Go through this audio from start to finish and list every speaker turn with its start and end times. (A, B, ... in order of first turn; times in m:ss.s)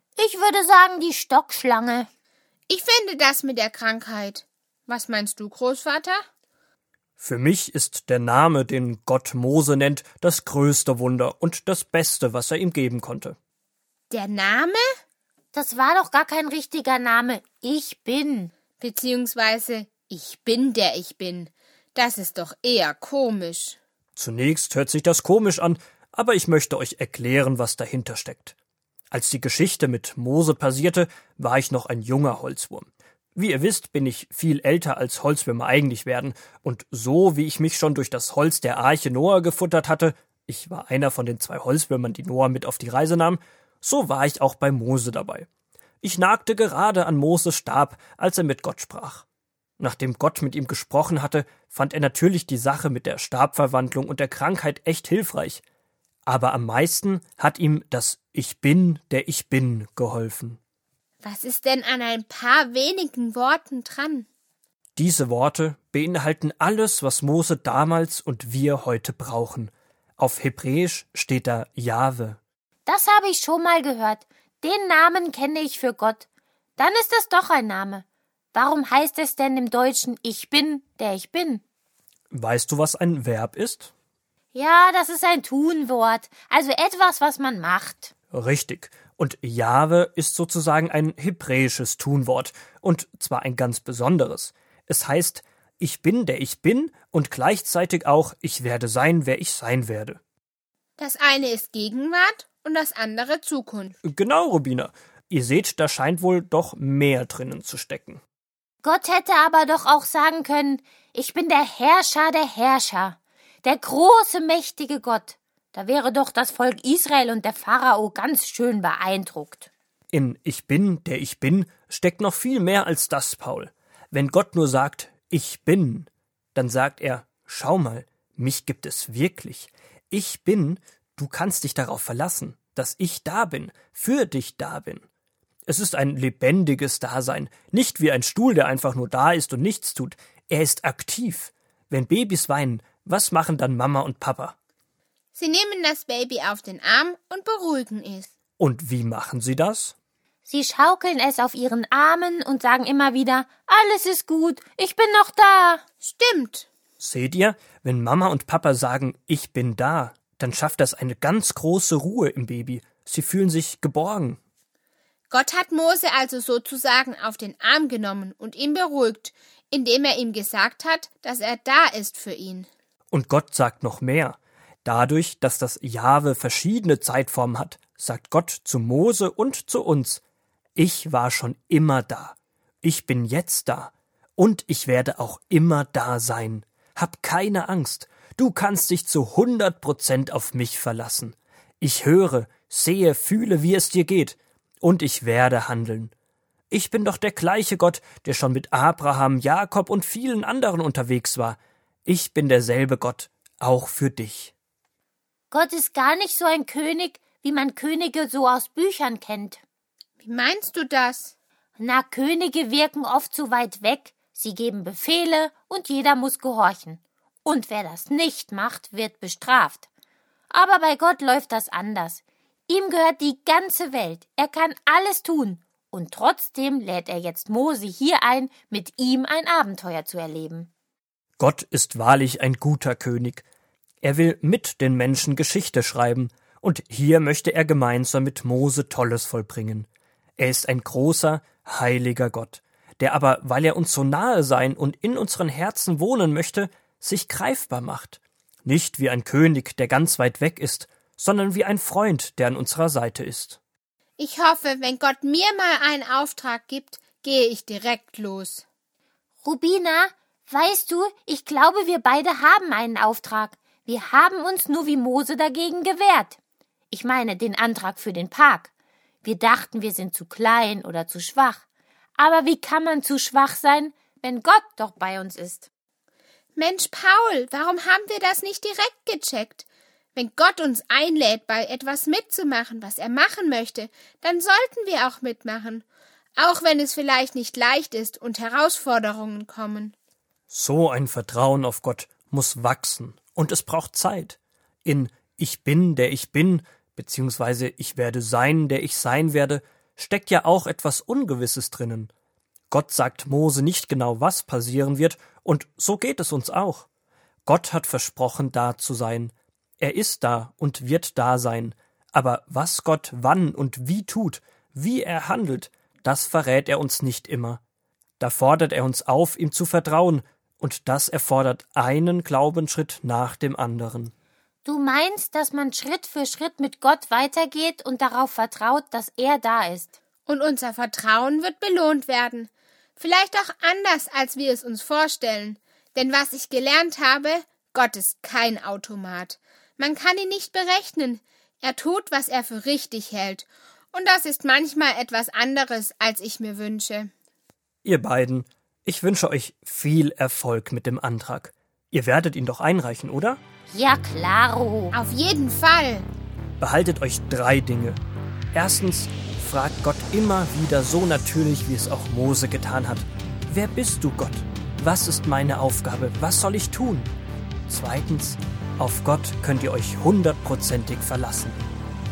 0:00.2-0:02.1 A
0:02.7-0:06.2 B
0:07.2-0:13.4 C
0:14.1-0:14.8 B
0:15.5-0:18.5 A
0:18.8-0:23.8 B
0:24.2-0:28.6 C
0:29.1-0:45.5 C
0:46.0-0:49.3 C
0:49.8-0:55.6 C
0:56.3-1:00.6 C
1:01.2-1:04.3 B
1:05.0-1:12.4 C
1:12.9-1:16.3 A
1:16.8-1:21.6 A
1:22.3-1:23.9 C
1:24.5-1:28.1 A
1:28.3-1:40.2 C
1:41.0-1:44.0 B
1:44.0-1:48.2 C
1:48.8-1:59.7 A
2:00.1-2:15.0 C
2:15.7-2:24.6 C
2:25.3-2:28.3 B
2:28.6-2:30.0 C
2:30.5-2:35.8 A
2:36.0-2:36.7 B
2:37.0-2:44.4 C
2:45.3-2:52.7 B
2:53.1-3:00.2 C
3:00.8-3:16.1 C
3:16.7-3:24.5 C
3:25.5-3:29.6 A
3:30.2-3:31.3 B
3:31.8-3:39.9 A
3:40.5-3:50.7 A
3:51.4-3:53.5 C
3:54.0-4:13.6 C
4:14.2-4:18.6 B
4:19.4-4:26.4 A
4:26.9-4:28.7 A
4:29.2-4:31.6 A
4:32.2-4:35.7 A
4:36.6-4:45.8 B
4:46.4-4:50.0 B
4:50.5-5:02.1 C
5:02.7-5:06.9 C
5:07.5-5:17.6 C
5:18.2-5:24.1 C
5:24.7-5:29.9 A
5:30.3-5:47.1 B
5:47.8-5:53.4 C
5:53.7-5:55.0 A
5:54.9-5:56.1 B
5:56.6-5:58.0 C
5:58.5-6:07.1 C
6:07.7-6:11.7 C